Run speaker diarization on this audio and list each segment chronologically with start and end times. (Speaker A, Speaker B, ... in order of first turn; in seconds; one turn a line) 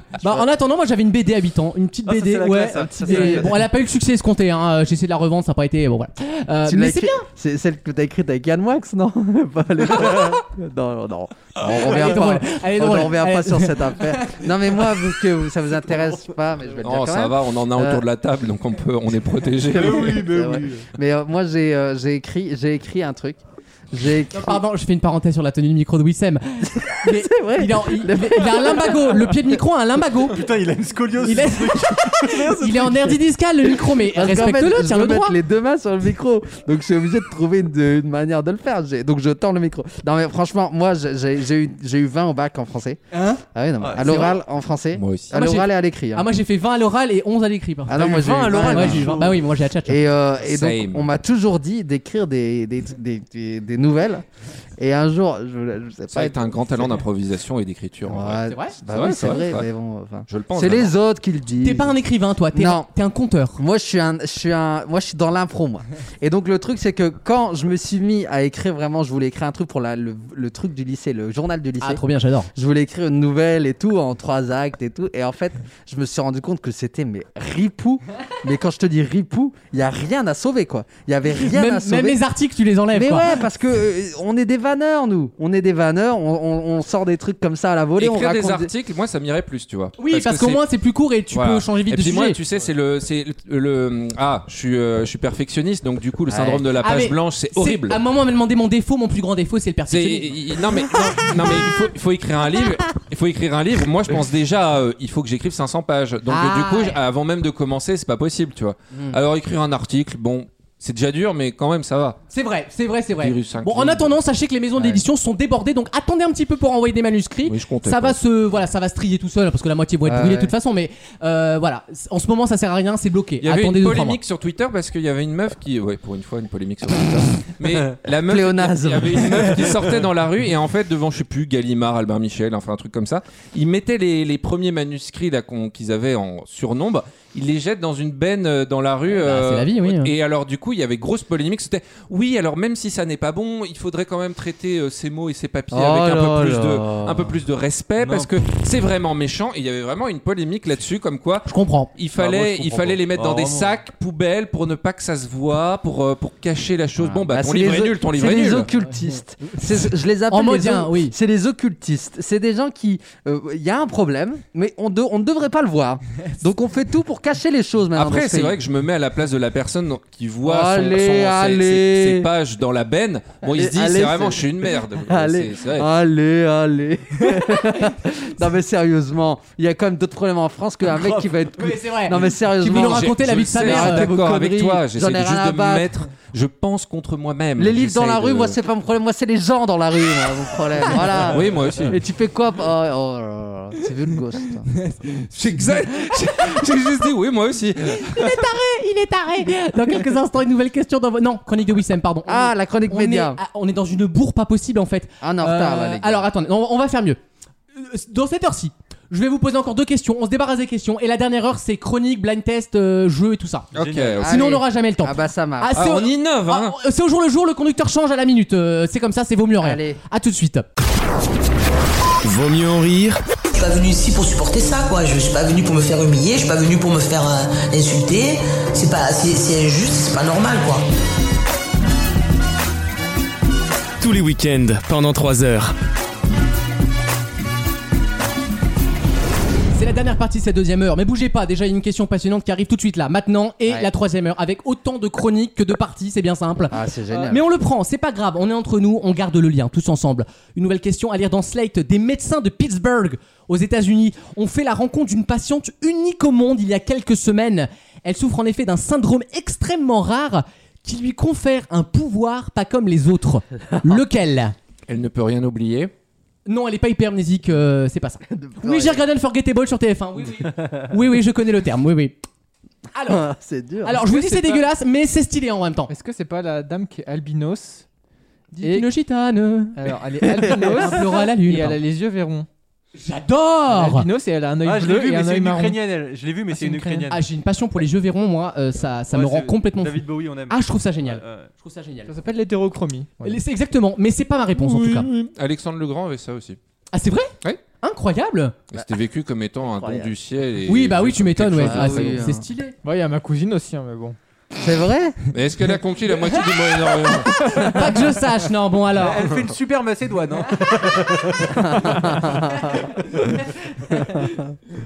Speaker A: 0.2-7.2
Speaker B: 2.0-3.7
Speaker C: 3.0-3.5
Speaker C: 6.7-18.0
Speaker B: 11.6-11.9
Speaker A: 11.7-14.4
Speaker D: 16.8-20.3
Speaker B: 19.7-20.9
Speaker C: 19.9-23.4
Speaker C: 23.9-24.6
Speaker A: 24.3-30.4
Speaker C: 26.7-29.4
Speaker B: 30.3-33.2
Speaker A: 31.2-35.4
Speaker C: 34.0-46.2
Speaker B: 43.8-44.3
Speaker A: 44.0-44.4
Speaker D: 44.9-45.3
Speaker A: 45.3-50.0
Speaker C: 47.9-49.2
Speaker B: 47.9-49.4
Speaker C: 49.9-54.2
Speaker D: 50.4-51.1
Speaker C: 54.8-57.0
Speaker D: 56.1-59.7
Speaker C: 58.1-61.9
Speaker A: 58.5-58.8
Speaker D: 60.3-60.9
Speaker A: 61.6-63.6
Speaker C: 62.5-62.9
Speaker C: 63.6-72.0
Speaker A: 71.8-72.5
Speaker C: 72.5-82.2
Speaker A: 81.4-83.3
Speaker C: 82.9-88.7
Speaker D: 88.0-90.6
Speaker A: 90.0-92.4
Speaker D: 91.3-98.0
Speaker C: 96.3-96.6
Speaker A: 96.8-100.4
Speaker D: 99.9-112.2
Speaker A: 106.3-107.0
Speaker A: 112.3-124.2
Speaker D: 113.2-114.2
Speaker D: 117.5-118.2
Speaker C: 120.0-120.5
Speaker D: 123.4-158.7
Speaker C: 128.2-130.0
Speaker A: 139.1-140.1
Speaker C: 145.7-147.3
Speaker B: 148.0-148.3
Speaker A: 151.4-151.9
Speaker B: 152.2-153.8
Speaker C: 157.0-168.6
Speaker A: 158.8-161.1
Speaker D: 167.9-175.9
Speaker C: 170.4-172.3
Speaker C: 173.5-185.9
Speaker B: 180.9-181.3
Speaker A: 181.6-184.1
Speaker D: 182.6-188.6
Speaker C: 187.6-194.7
Speaker D: 191.2-192.0
Speaker A: 194.8-195.2
Speaker D: 195.3-198.5
Speaker A: 198.0-207.2
Speaker C: 202.3-203.4
Speaker C: 205.2-206.3
Speaker A: 207.7-213.7
Speaker B: 213.7-214.3
Speaker D: 213.7-214.4
Speaker C: 214.2-215.8
Speaker A: 214.2-220.7
Speaker D: 215.7-216.8
Speaker C: 219.6-220.0
Speaker E: 222.2-223.2
Speaker F: 223.6-230.8
Speaker E: 234.0-235.8
Speaker A: 239.7-264.5
Speaker C: 246.7-247.4
Speaker D: 264.9-265.9
Speaker A: 266.4-272.2
Speaker C: 268.3-269.0
Speaker A: 272.9-273.2
Speaker C: 273.1-274.0
Speaker A: 273.8-275.9
Speaker G: 274.0-274.6
Speaker G: 275.9-277.8
Speaker G: 278.5-278.9
Speaker A: 278.6-279.8
Speaker G: 279.7-282.5
Speaker A: 280.3-281.8
Speaker A: 283.0-284.1
Speaker G: 283.7-285.8
Speaker B: 284.6-287.2
Speaker A: 286.5-292.1
Speaker B: 289.1-291.5
Speaker G: 292.1-293.4
Speaker A: 293.2-295.1
Speaker D: 294.5-296.6
Speaker A: 296.9-298.5
Speaker D: 298.7-302.3
Speaker C: 299.7-300.1
Speaker A: 300.7-302.7
Speaker C: 301.6-302.4
Speaker G: 302.8-304.2
Speaker C: 304.6-305.2
Speaker D: 305.3-307.3
Speaker A: 307.3-309.3
Speaker C: 307.3-308.0
Speaker B: 308.9-311.7
Speaker C: 311.6-312.9
Speaker A: 312.5-314.4
Speaker C: 313.9-314.4